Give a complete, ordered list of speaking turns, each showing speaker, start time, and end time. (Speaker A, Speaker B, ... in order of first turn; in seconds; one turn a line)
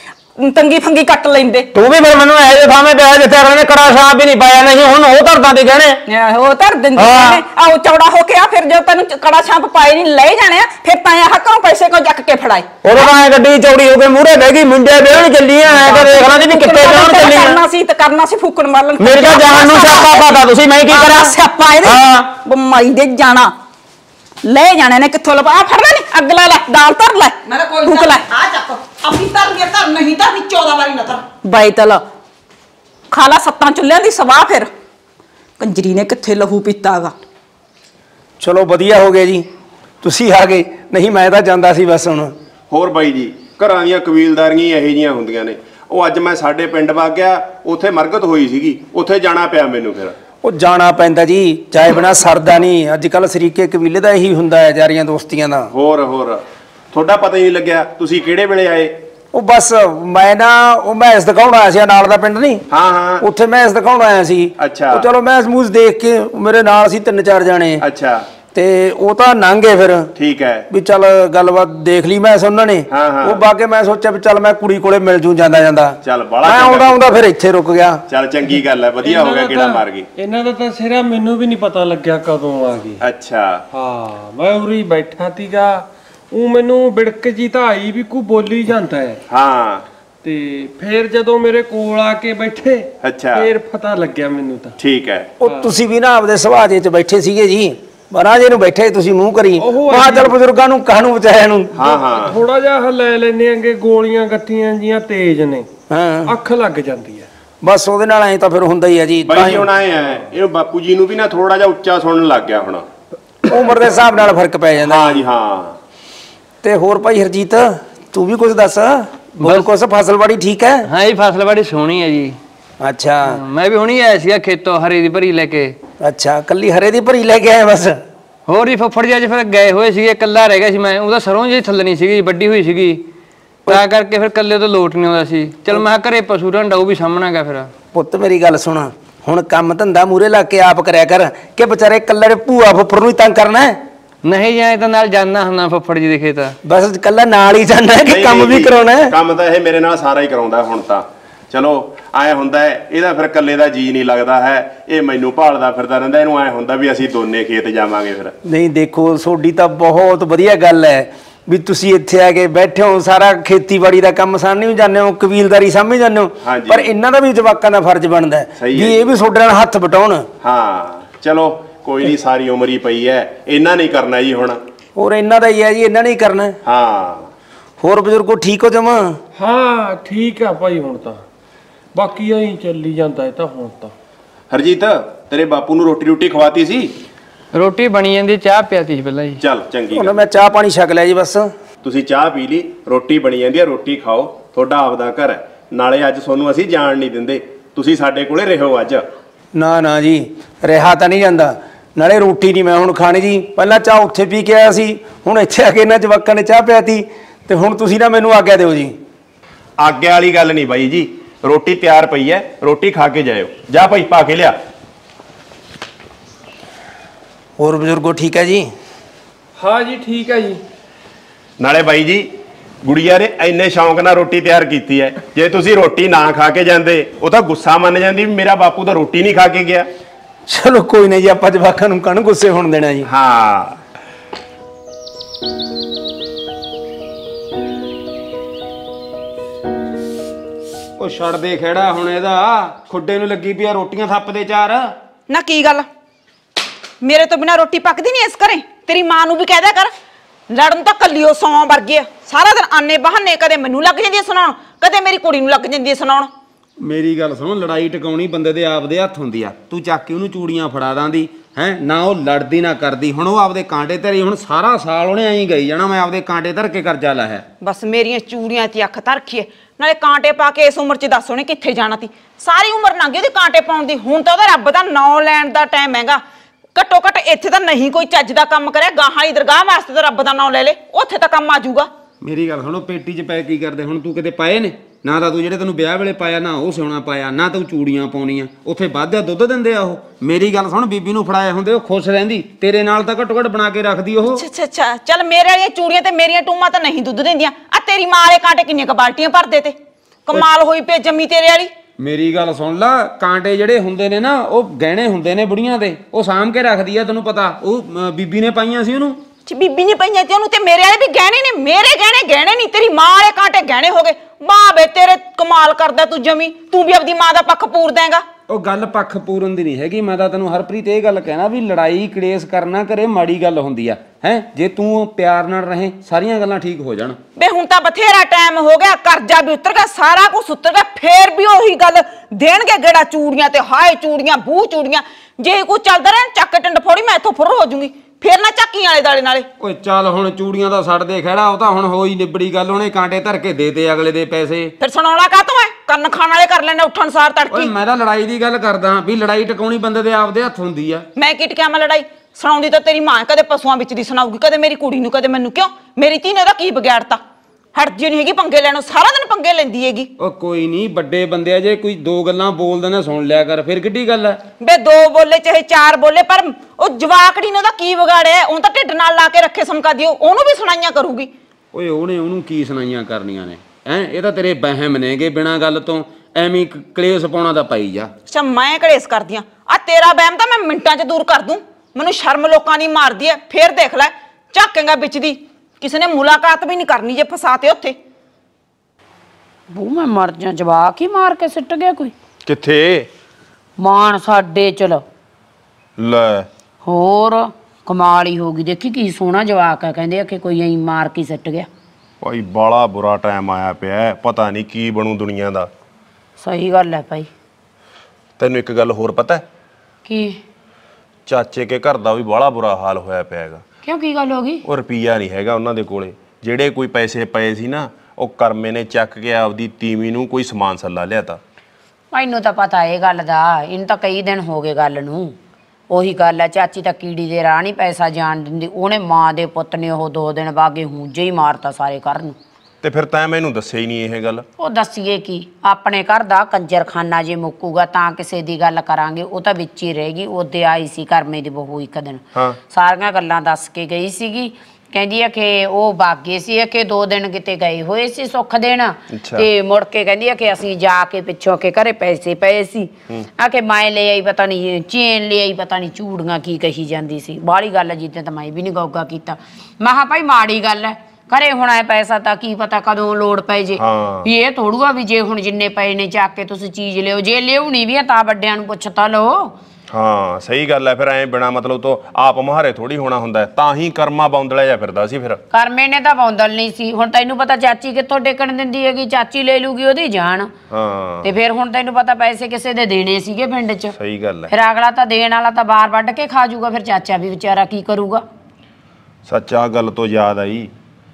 Speaker A: 0.4-1.7
Speaker B: 1.7-6.0
Speaker A: 6.1-13.1
Speaker B: 6.9-7.4
Speaker B: 12.8-17.6
Speaker A: 15.7-23.5
Speaker B: 19.0-22.3
Speaker A: 24.4-28.3
Speaker C: 27.4-31.3
Speaker A: 31.4-32.0
Speaker A: 33.1-34.7
Speaker A: 35.6-37.1
Speaker D: 38.4-39.5
Speaker D: 40.0-42.3
Speaker E: 42.7-50.1
Speaker D: 50.4-55.7
Speaker E: 55.7-59.0
Speaker D: 59.3-62.6
Speaker E: 62.7-63.2
Speaker D: 63.2-67.8
Speaker E: 64.6-65.0
Speaker E: 67.8-68.3
Speaker D: 68.5-70.1
Speaker E: 70.1-70.7
Speaker D: 70.7-78.0
Speaker E: 72.9-73.4
Speaker E: 76.0-77.0
Speaker E: 78.1-80.1
Speaker F: 79.0-83.0
Speaker E: 83.0-83.6
Speaker F: 83.7-89.2
Speaker E: 89.3-89.9
Speaker F: 90.2-94.8
Speaker E: 93.0-93.5
Speaker E: 94.8-95.3
Speaker D: 95.4-101.7
Speaker F: 95.4-95.7
Speaker F: 99.6-100.3
Speaker E: 101.7-102.4
Speaker F: 101.8-105.7
Speaker D: 105.9-106.3
Speaker F: 106.2-107.3
Speaker D: 107.6-109.7
Speaker E: 109.2-112.9
Speaker D: 113.5-115.2
Speaker E: 114.8-115.8
Speaker D: 116.6-120.8
Speaker G: 119.4-119.7
Speaker G: 120.8-122.4
Speaker D: 122.8-123.4
Speaker G: 123.3-125.7
Speaker D: 126.0-128.0
Speaker G: 128.5-133.1
Speaker G: 133.7-137.7
Speaker D: 137.9-143.8
Speaker G: 144.2-146.6
Speaker D: 146.6-149.1
Speaker E: 148.1-158.3
Speaker D: 158.4-170.2
Speaker E: 166.4-166.9
Speaker E: 168.6-169.0
Speaker E: 170.4-174.6
Speaker D: 174.9-176.6
Speaker E: 176.6-177.3
Speaker D: 177.8-179.2
Speaker F: 179.3-181.2
Speaker F: 181.9-183.9
Speaker E: 184.5-186.9
Speaker G: 187.5-189.4
Speaker E: 189.4-190.1
Speaker D: 189.9-191.5
Speaker E: 191.8-199.0
Speaker D: 199.5-208.9
Speaker E: 209.8-214.6
Speaker D: 217.6-218.7
Speaker F: 219.6-220.6
Speaker E: 221.6-222.3
Speaker E: 222.8-229.9
Speaker D: 230.5-233.1
Speaker E: 233.0-233.8
Speaker B: 241.0-244.9
Speaker C: 245.3-245.9
Speaker C: 247.0-249.9
Speaker C: 250.5-256.3
Speaker B: 256.8-267.4
Speaker C: 267.6-276.2
Speaker C: 276.7-281.9
Speaker B: 282.2-294.4
Speaker C: 294.3-301.7
Speaker B: 302.0-309.2
Speaker C: 309.4-318.2
Speaker B: 318.5-327.2
Speaker C: 327.4-339.5
Speaker B: 339.6-344.7
Speaker C: 344.8-347.7
Speaker B: 347.5-351.1
Speaker C: 351.1-357.2
Speaker C: 357.7-360.1
Speaker B: 360.2-364.4
Speaker C: 364.6-371.3
Speaker B: 371.7-378.1
Speaker C: 378.3-388.0
Speaker H: 389.7-392.1
Speaker E: 392.4-393.1
Speaker H: 393.8-395.0
Speaker E: 396.0-396.5
Speaker H: 396.8-401.7
Speaker E: 402.2-405.7
Speaker H: 406.4-407.3
Speaker E: 408.4-409.4
Speaker H: 410.1-410.4
Speaker E: 411.2-413.6
Speaker H: 413.8-414.6
Speaker E: 414.6-421.4
Speaker H: 422.1-425.4
Speaker H: 425.9-432.4
Speaker E: 432.8-434.4
Speaker H: 434.6-469.6
Speaker E: 449.1-449.5
Speaker E: 463.8-464.3
Speaker E: 469.9-475.4
Speaker H: 475.5-480.5
Speaker E: 480.7-481.3
Speaker H: 481.2-483.9
Speaker E: 484.0-484.5
Speaker H: 484.5-488.2
Speaker E: 489.2-490.7